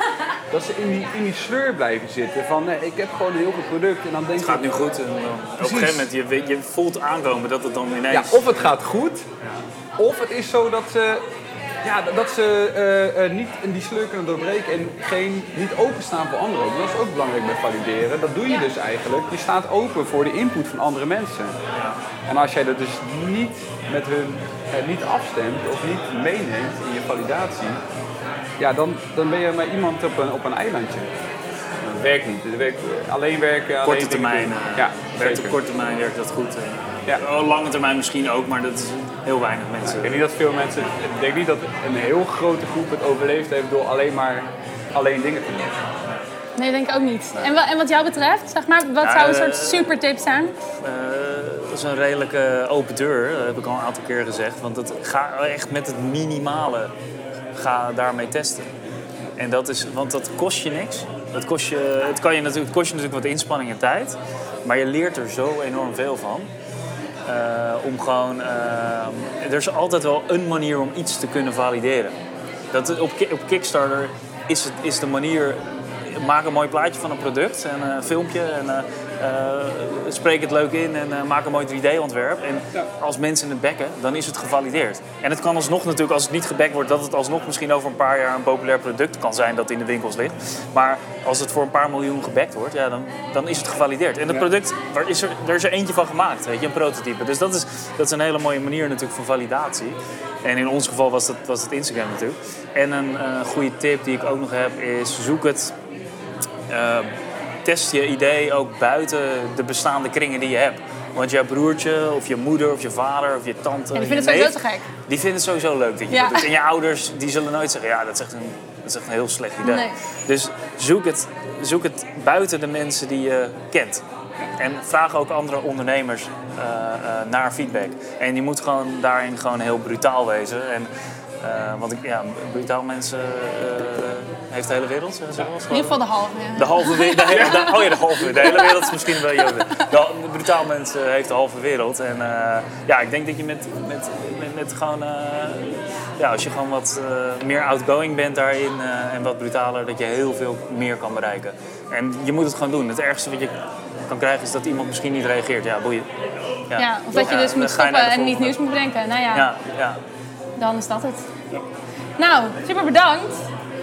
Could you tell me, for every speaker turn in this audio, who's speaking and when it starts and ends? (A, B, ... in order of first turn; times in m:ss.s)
0:00.5-0:04.8 A
0:04.4-0:08.6 B
0:05.6-0:06.1 A
0:08.1-0:09.3 A
0:10.0-0:11.2 A
0:11.8-0:21.5 A
0:22.3-0:27.8 A
0:28.6-0:31.1 A
0:31.8-0:35.6 A
0:33.8-0:40.1 B
0:39.8-0:45.8 A
0:46.6-0:50.6 C
0:49.0-0:49.9 B
0:50.8-0:56.9 B
0:57.5-0:58.7 B
0:59.4-1:06.5 B
1:07.2-1:12.2 B
1:12.7-1:45.7 B
1:46.7-1:47.1 B
1:47.6-1:54.6 B
1:53.9-1:54.8 C
1:55.1-2:04.0 B
1:56.1-1:56.5 C
1:59.6-2:00.0 C
2:04.6-2:10.9 B
2:11.4-2:16.0 B
2:15.7-2:19.9 C
2:16.6-2:33.5 B
2:17.3-2:17.7 A
2:34.1-2:36.1 B
2:36.7-2:38.6 B
2:36.8-2:39.5 C
2:39.3-2:40.0 B
2:40.6-2:41.3 C
2:42.2-2:43.4 C